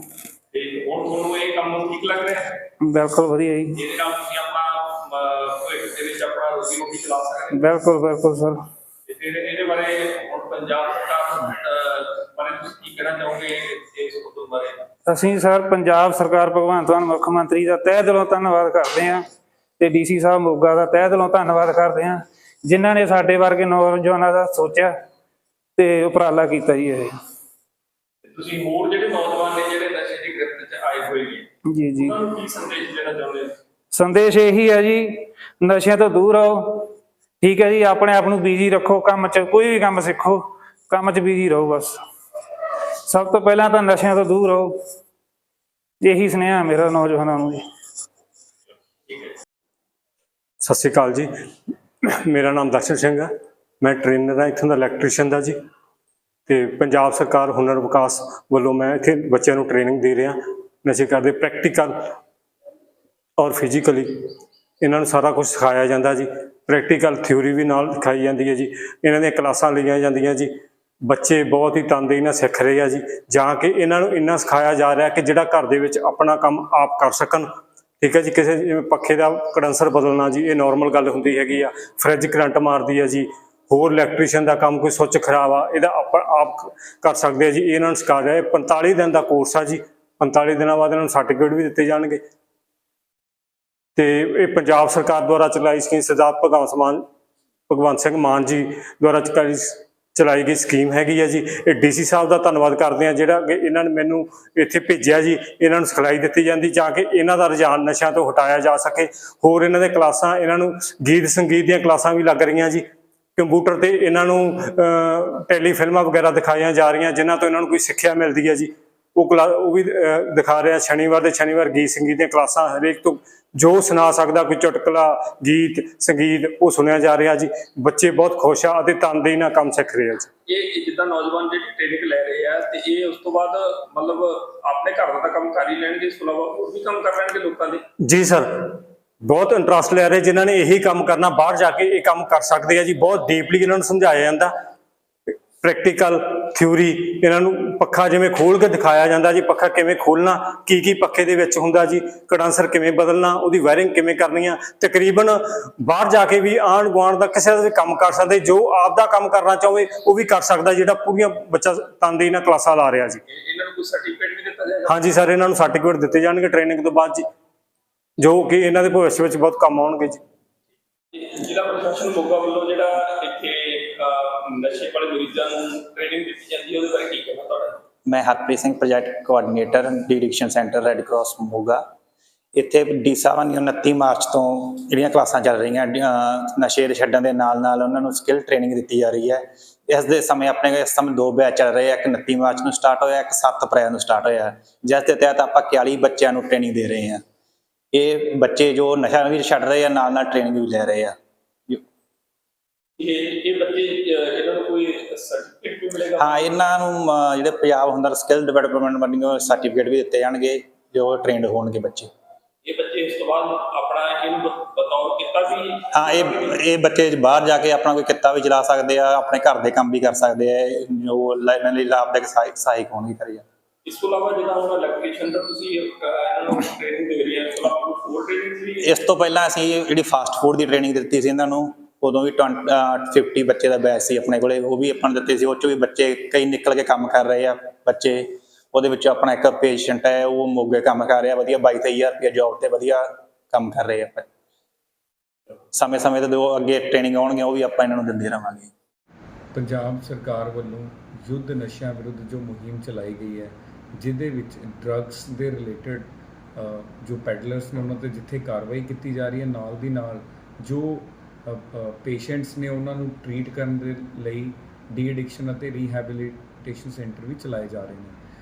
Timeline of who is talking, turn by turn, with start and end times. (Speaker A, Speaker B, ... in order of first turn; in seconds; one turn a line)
Speaker A: 0.5-2.6
Speaker B: 2.8-3.8
Speaker A: 3.8-7.6
Speaker B: 7.5-8.6
Speaker A: 9.1-14.8
Speaker B: 15.1-19.2
Speaker B: 19.8-24.9
Speaker B: 25.8-27.1
Speaker A: 28.3-31.5
Speaker B: 31.7-32.2
Speaker A: 32.0-33.5
Speaker B: 33.9-42.0
Speaker B: 43.0-44.8
Speaker B: 46.0-47.6
Speaker A: 49.1-49.3
Speaker C: 50.6-51.3
Speaker C: 52.1-53.3
Speaker C: 53.8-55.5
Speaker C: 56.5-61.9
Speaker C: 63.4-64.1
Speaker C: 64.8-70.5
Speaker C: 71.0-77.5
Speaker C: 78.0-92.2
Speaker C: 94.0-97.0
Speaker C: 97.7-112.8
Speaker C: 113.4-130.3
Speaker A: 130.5-137.8
Speaker C: 138.0-144.5
Speaker C: 145.6-163.2
Speaker A: 163.3-165.0
Speaker C: 164.9-167.2
Speaker C: 168.2-170.2
Speaker A: 171.1-177.8
Speaker D: 178.1-181.8
Speaker D: 182.6-197.2
Speaker D: 197.9-201.1
Speaker A: 203.0-206.6
Speaker D: 206.2-212.1
Speaker A: 212.7-216.6
Speaker D: 215.9-223.4
Speaker A: 223.8-228.9
Speaker D: 228.8-244.2
Speaker D: 245.7-248.7
Speaker E: 249.5-268.2